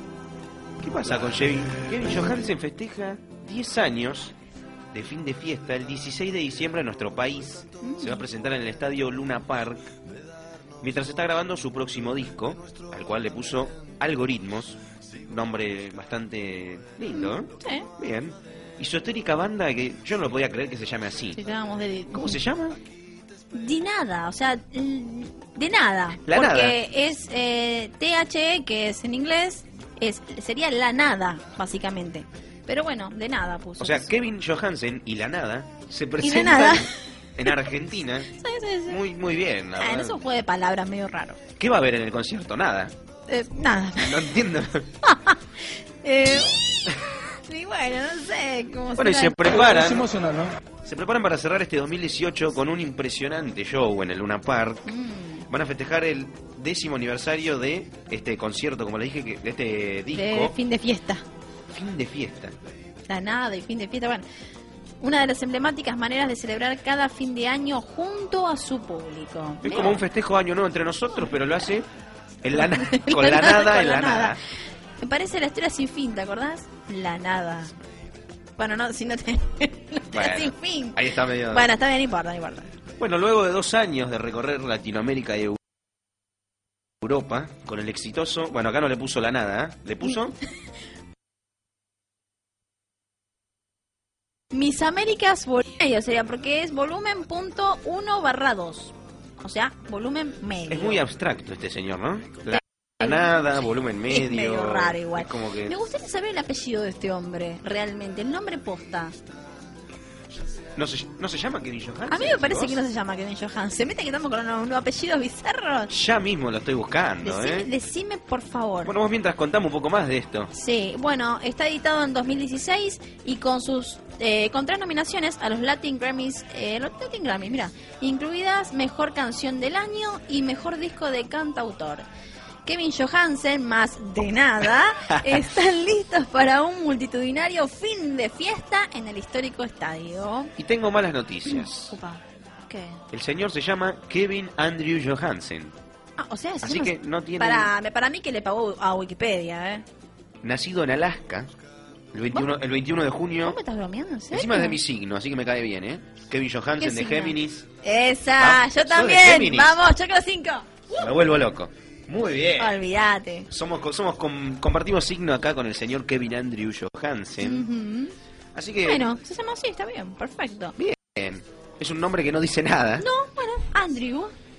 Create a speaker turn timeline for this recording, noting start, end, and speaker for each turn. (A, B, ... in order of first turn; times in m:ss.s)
0:00.8-0:04.4 A
0:04.9-0:09.9 A
0:07.8-0:08.2 B
0:10.8-0:21.4 A
0:17.1-0:17.9 B
0:21.3-0:22.4 B
0:22.1-0:22.8 A
0:23.5-0:34.1 B
0:26.2-0:26.8 A
0:33.8-0:38.3 A
0:36.2-0:36.9 B
0:38.3-0:39.0 B
0:38.9-0:40.2 A
0:39.8-0:41.4 B
0:41.6-0:42.9 A
0:43.3-0:44.3 B
0:44.0-0:44.9 A
0:45.0-0:45.4 B
0:46.0-0:46.9 B
0:47.5-0:49.6 B
0:49.0-0:50.1 A
0:50.8-0:54.9 A
0:54.9-0:55.5 B
0:55.5-1:00.5 A
1:00.1-1:01.2 B
1:01.7-1:02.6 A
1:03.1-1:04.2 B
1:05.0-1:10.0 B
1:09.6-1:11.9 A
1:12.4-1:14.4 A
1:12.6-1:14.4 B
1:15.0-1:17.7 B
1:18.6-1:22.7 B
1:20.1-1:21.7 A
1:23.0-1:25.6 A
1:27.0-1:30.4 A
1:34.5-1:41.0 B
1:40.7-1:45.8 A
1:42.5-1:43.4 B
1:44.1-1:49.2 B
1:50.8-1:52.8 A
1:52.1-1:55.9 B
1:55.9-1:57.7 A
1:57.2-1:58.9 B
1:58.8-2:00.5 A
2:00.5-2:12.0 B
2:12.6-2:20.5 B
2:20.6-2:22.0 A
2:21.5-2:23.0 B
2:23.1-2:25.7 A
2:26.2-2:29.8 B
2:26.6-2:27.7 A
2:30.4-2:31.5 A
2:32.1-2:33.6 A
2:33.4-2:34.8 B
2:34.3-2:37.7 A
2:36.8-2:41.1 B
2:38.4-2:39.8 A
2:41.0-2:42.8 A
2:42.6-2:43.5 B
2:43.5-2:47.7 A
2:47.4-2:48.1 B
2:48.5-2:49.1 A
2:48.8-2:50.8 B
2:50.8-2:53.1 A
2:53.0-2:54.3 B